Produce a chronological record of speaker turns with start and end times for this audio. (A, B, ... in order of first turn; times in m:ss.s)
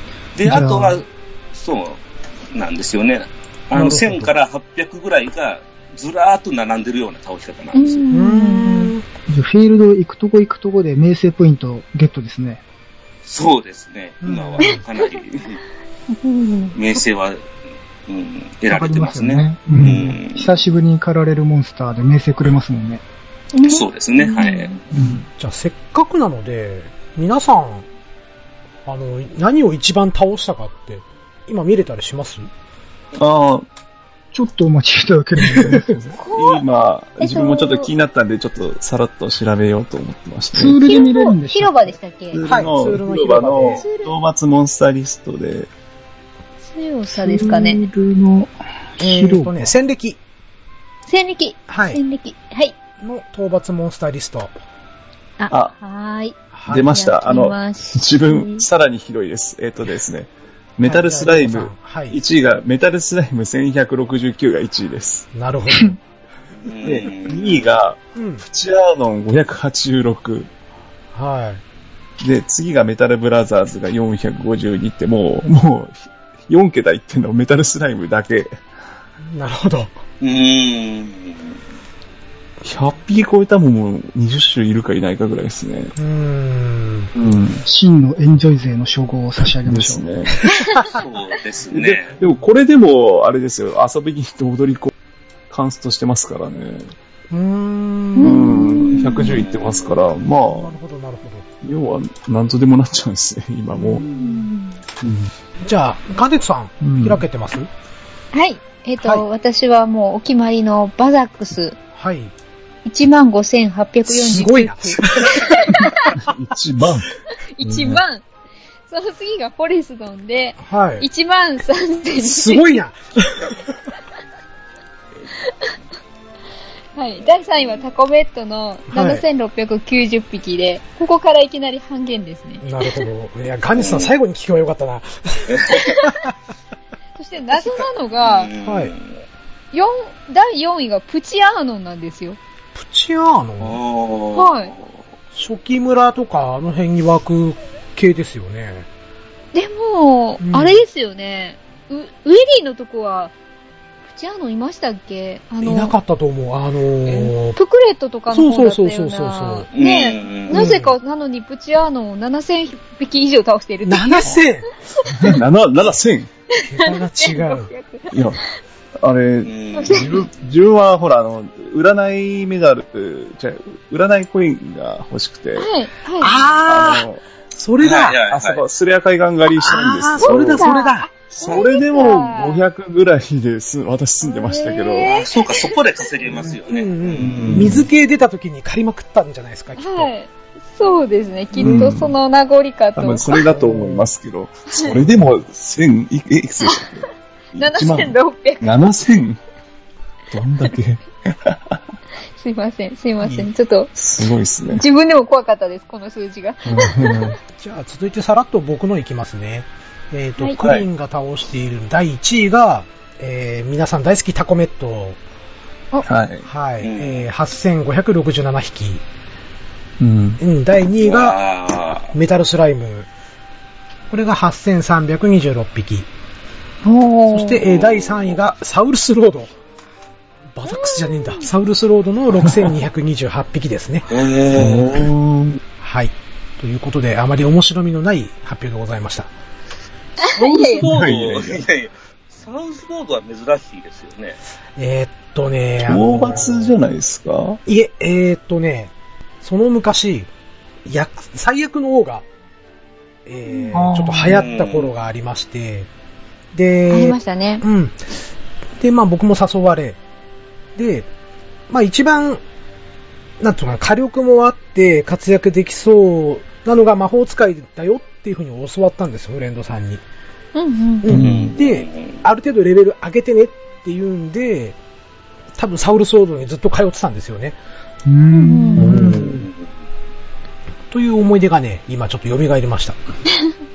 0:00.4-0:08.1 A
0:00.4-0:01.0 B
0:03.7-0:04.3 C
0:07.7-0:09.0 D
0:08.1-0:09.0 C
0:09.3-0:12.6 B
0:13.2-0:15.6 A
0:14.2-0:14.8 C
0:14.6-0:15.2 D
0:16.1-0:16.8 D
0:16.7-0:17.5 A
0:18.1-0:20.5 A
0:18.7-0:23.0 B
0:23.5-0:24.8 D
0:23.7-0:24.8 A
0:24.9-0:25.2 B
0:25.4-0:27.9 C
0:28.9-0:32.5 C
0:33.2-0:33.7 E
0:34.3-0:35.9 B
0:35.7-0:40.8 E
0:36.2-0:36.6 D
0:37.2-0:37.9 D
0:40.5-0:42.0 B
0:40.8-0:42.4 D
0:42.3-0:45.7 E
0:42.5-0:43.9 C
0:43.8-0:44.1 D
0:46.7-0:47.8 D
0:47.1-0:49.8 B
0:49.0-0:50.2 C
0:51.1-0:52.8 D
0:51.7-0:52.0 C
0:53.0-0:54.5 C
0:55.4-0:58.7 D
0:56.5-0:57.0 C
0:56.7-1:05.3 E
1:00.8-1:02.2 C
1:05.3-1:06.0 C
1:06.6-1:07.7 A
1:06.8-1:10.5 E
1:08.2-1:08.4 C
1:11.1-1:11.6 C
1:12.2-1:18.6 E
1:19.3-1:19.9 C
1:20.2-1:21.6 A
1:22.6-1:26.0 E
1:26.0-1:27.1 C
1:27.2-1:27.6 E
1:27.6-1:30.0 B
1:29.7-1:30.4 E
1:30.5-1:31.0 D
1:30.9-1:32.2 A
1:31.7-1:34.9 E
1:35.5-1:36.9 E
1:37.3-1:38.4 C
1:38.2-1:39.3 D
1:38.2-1:40.7 E
1:38.9-1:40.0 A
1:40.4-1:41.5 C
1:41.6-1:44.0 E
1:43.8-1:44.1 B
1:44.0-1:44.8 D
1:44.1-1:44.5 C
1:45.0-1:45.3 E
1:45.6-1:47.7 C
1:46.8-1:47.2 E
1:48.3-1:51.8 D
1:49.0-1:49.3 C
1:51.9-1:52.3 C
1:52.8-1:56.2 D
1:54.1-1:55.8 C
1:56.2-1:58.0 E
1:57.5-1:58.2 D
1:58.9-2:02.8 D
2:00.6-2:01.1 C
2:02.2-2:03.7 C
2:07.0-2:12.6 D
2:08.9-2:09.2 C
2:12.6-2:16.3 C
2:13.8-2:14.1 A
2:15.5-2:15.9 A
2:15.8-2:16.2 D
2:17.2-2:18.5 D
2:17.5-2:19.2 A
2:18.6-2:18.9 C
2:19.7-2:22.4 D
2:22.8-2:23.8 C
2:23.6-2:25.0 A
2:24.3-2:24.7 D
2:25.3-2:28.9 C
2:29.5-2:33.3 D
2:30.4-2:30.8 C
2:34.0-2:35.9 D
2:35.6-2:37.6 C
2:37.6-2:44.4 D
2:38.3-2:39.7 C
2:39.7-2:40.7 A
2:40.5-2:41.0 C
2:43.8-2:44.7 C
2:45.0-2:45.4 D
2:45.1-2:46.3 E
2:46.5-2:48.4 D
2:46.6-2:47.7 C
2:48.1-2:48.4 E
2:49.0-2:55.7 E
2:49.4-2:50.2 A
2:49.8-2:50.2 D
2:55.6-2:56.4 D
2:56.2-2:58.2 C
2:56.5-2:57.2 E
2:57.8-2:58.6 A
2:58.3-3:00.7 E
2:59.6-3:01.1 C
3:00.2-3:02.6 D
3:01.3-3:05.1 E
3:04.2-3:05.7 D
3:05.0-3:07.8 A
3:06.7-3:10.1 C
3:07.2-3:07.9 E
3:09.8-3:13.4 D
3:11.6-3:11.9 C
3:11.6-3:12.2 E
3:13.0-3:19.4 E
3:13.5-3:14.1 C
3:14.7-3:15.0 D
3:16.6-3:18.7 D
3:20.3-3:21.8 E
3:22.4-3:23.9 D
3:23.2-3:23.5 C
3:24.0-3:24.8 E
3:24.7-3:27.4 D
3:26.7-3:27.4 E
3:27.6-3:35.2 C
3:30.6-3:30.9 E
3:36.0-3:36.4 E
3:36.4-3:39.0 C
3:36.8-3:37.3 A
3:40.0-3:40.4 E
3:40.4-3:41.4 C
3:41.0-3:42.1 A
3:42.1-3:43.1 C
3:44.1-3:46.1 C
3:46.8-3:47.6 D
3:47.3-3:49.5 C
3:47.6-3:48.4 A
3:50.6-3:54.1 C
3:50.7-3:51.4 D
3:54.1-3:55.1 A
3:54.5-3:55.6 E
3:55.8-3:59.3 C
4:00.2-4:00.9 D
4:00.2-4:04.4 A
4:00.7-4:01.6 E
4:04.8-4:06.8 C
4:05.8-4:07.6 E
4:07.7-4:10.3 C
4:10.9-4:12.3 C
4:13.3-4:15.9 C
4:13.7-4:14.4 B
4:14.2-4:14.9 A
4:16.5-4:18.0 C
4:16.9-4:17.6 D
4:18.8-4:20.0 C
4:20.8-4:21.1 C
4:21.7-4:22.4 C
4:23.4-4:30.0 C
4:30.6-4:31.1 D
4:31.0-4:34.8 C
4:31.1-4:31.5 E
4:31.1-4:32.2 A
4:35.6-4:37.6 C
4:38.1-4:39.2 B
4:38.3-4:39.0 D
4:38.8-4:39.4 C
4:38.8-4:39.4 E
4:39.2-4:39.7 A
4:40.9-4:43.0 C